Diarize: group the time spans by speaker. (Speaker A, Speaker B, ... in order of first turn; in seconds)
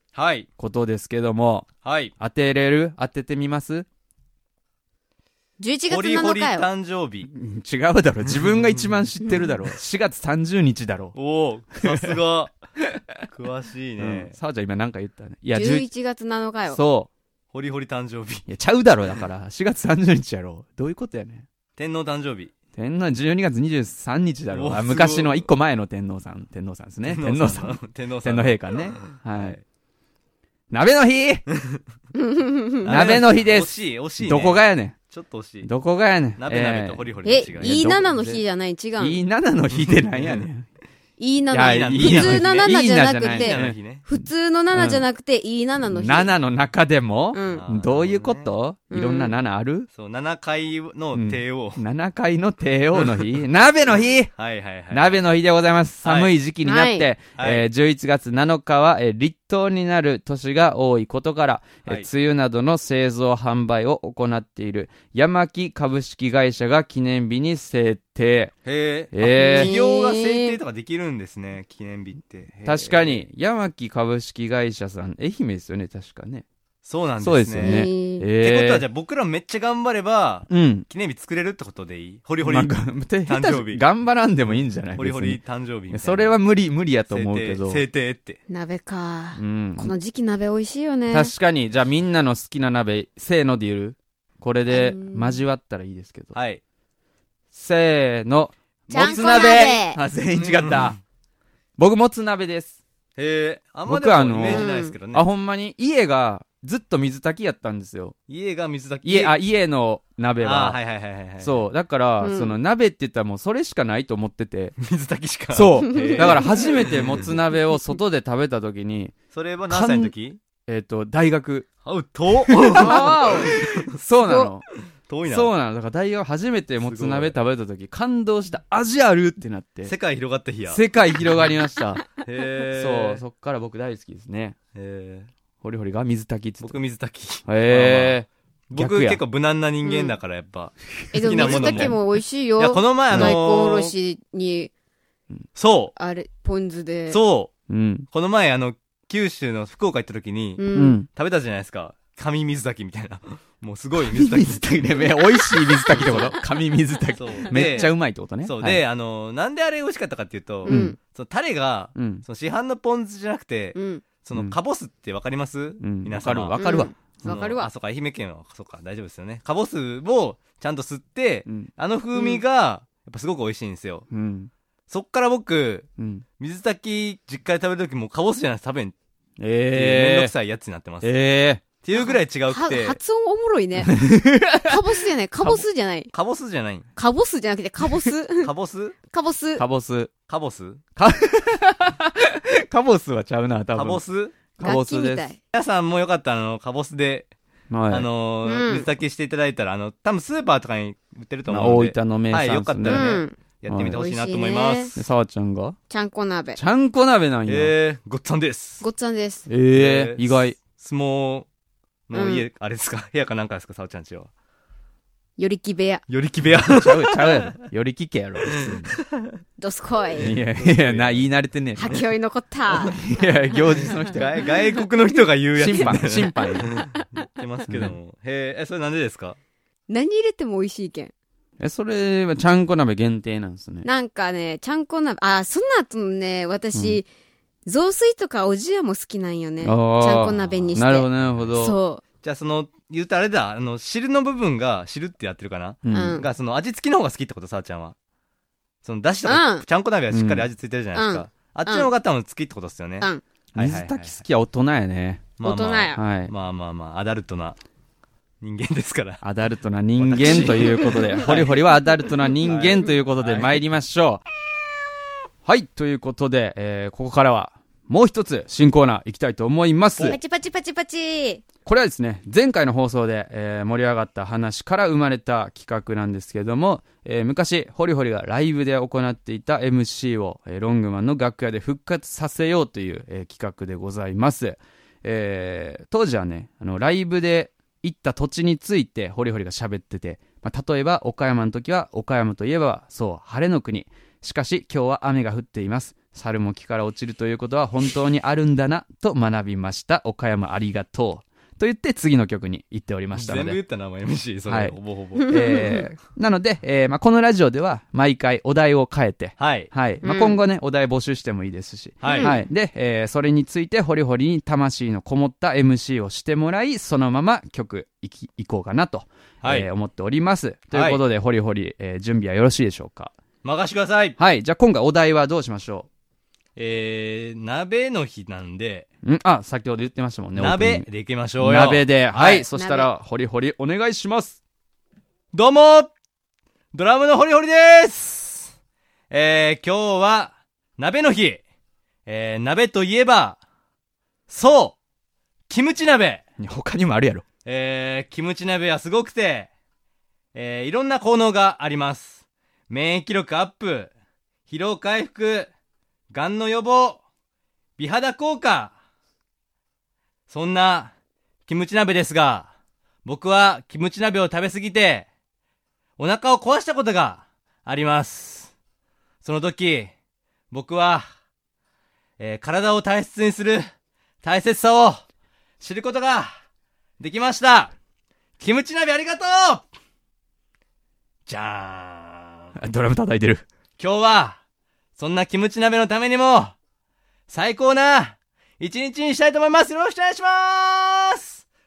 Speaker A: 0.1-0.5, 1.8-2.1, 5.9-7.3, 8.3-8.8, 11.2-12.5, 13.3-14.3, 17.5-18.5, 21.8-22.5, 24.5-25.4, 27.0-29.6, 32.8-35.7, 36.4-38.0, 39.7-40.5, 41.6-44.0, 47.5-48.5, 49.9-51.8, 53.0-53.3, 54.3-55.2, 56.0-56.3, 57.4-57.7, 68.7-73.2, 76.8-77.8, 78.4-83.8, 84.9-86.4, 87.1-88.4, 96.3-96.6, 98.9-99.8, 100.3-101.0, 103.2-105.3, 108.3-109.3, 110.4-111.6, 114.8-117.3, 119.3-120.4, 121.8-123.9, 125.0-125.5, 126.8-127.4, 129.8-130.8, 132.2-133.2, 134.8-135.3, 136.6-142.0, 142.6-143.9, 145.6-145.9, 147.1-147.5, 148.1-155.0, 155.9-156.3, 157.2-157.9, 158.4-174.1, 174.9-175.9, 176.4-178.9, 179.7-181.2, 181.8-183.0, 186.1-186.9, 188.4-189.0, 190.3-190.8, 193.8-194.4, 195.5-197.3, 197.9-205.1, 207.5-208.9, 209.7-211.5, 212.1-214.3, 216.1-217.5, 220.2-221.3, 223.8-229.4, 242.2-247.9, 248.8-254.2, 255.4-257.6, 258.4-259.2, 260.0-261.7, 262.4-263.6, 303.1-305.6, 309.4-309.7, 312.0-312.4, 319.4-319.7, 320.7-321.0, 323.4-324.2, 326.6-328.9, 330.4-332.5, 335.3-335.9, 336.7-338.5, 339.1-341.4, 342.1-343.4, 344.3-344.8, 345.5-346.2, 347.4-349.5, 350.3-353.9, 354.5-355.5, 356.1-357.0, 357.8-358.8, 360.3-360.9, 361.5-362.5, 363.1-365.1, 366.0-368.5, 369.2-369.9, 370.5-371.1, 372.2-373.7, 374.2-375.0, 375.6-376.3, 377.0-377.7, 378.4-379.7, 381.3-382.6, 383.8-384.4, 385.0-386.6, 387.3-391.4
Speaker B: 0.6-3.9, 7.3-11.2, 11.8-12.1, 14.0-15.9, 16.7-17.1, 18.5-21.5, 22.8-29.6, 30.7-31.4, 32.9-35.0, 35.6-37.1, 37.6-38.4, 39.0-40.7, 41.5-43.8, 44.7-45.0, 45.9-49.9, 51.1-54.3, 54.9-68.6, 69.1-69.7, 72.7-76.5, 77.2-78.8, 80.5-80.9, 82.4-85.4, 85.9-87.8, 89.4-89.9, 91.1-96.3, 97.5-101.0, 101.8-102.8, 103.8-108.2, 109.0-110.8, 111.4-114.8, 115.5-119.2, 119.7-120.1, 120.7-121.7, 122.7-124.7, 125.2-129.9, 130.7-132.1, 132.8-134.6, 135.6-136.8, 137.4-139.2, 141.2-142.0, 143.1-143.4, 147.7-148.1, 150.7-151.1, 154.1-158.8, 160.7-160.9, 162.0-162.2, 165.8-166.9, 171.4-171.7, 174.1-174.5, 176.0-176.2, 179.4-180.3, 181.0-181.6, 183.8-184.8, 189.6-190.1, 191.0-194.0, 194.6-195.3, 197.7-198.1, 201.5-203.2, 203.7-204.0, 204.9-205.8, 206.6-207.7, 209.5-210.6, 216.5-219.0, 220.2-222.1, 222.9-224.4, 225.6-226.8, 227.7-227.9, 231.6-233.9, 236.7-237.0, 239.6-241.8, 245.8-246.2, 250.1-250.5, 253.6-255.3, 255.9-256.3, 259.2-264.2, 265.4-270.2, 271.6-303.6, 304.5-323.1, 324.2-325.9, 329.0-330.9, 331.4-334.4, 346.4-347.2, 382.6-383.5
Speaker C: 5.6-6.7, 15.5-16.8, 32.1-33.0, 37.2-39.2, 41.2-46.3, 47.3-47.6, 48.9-49.4, 56.6-57.1, 69.3-70.6, 77.6-78.3, 88.5-91.3, 94.7-95.4, 98.9-100.0, 104.4-105.0, 112.2-112.6, 115.9-116.5, 122.8-123.5, 124.3-124.5, 139.8-140.1, 141.1-144.7, 146.0-147.2, 150.6-151.0, 155.9-156.2, 160.7-161.0, 163.8-164.1, 166.6-167.7, 172.2-172.4, 182.0-184.0, 184.6-186.1, 187.0-188.5, 189.1-189.6, 194.6-195.4, 198.4-198.9, 202.8-203.4, 203.9-204.9, 205.9-206.6, 208.8-209.5, 212.1-212.4, 215.4-216.0, 219.6-220.3, 221.8-224.1, 225.8-227.0, 229.9-231.1, 233.8-237.1, 237.7-242.0, 245.9-246.3, 249.2-249.7, 250.9-251.9, 255.4-256.0, 270.0-271.4, 305.2-305.8, 310.0-310.4, 312.0-312.4, 332.5-332.9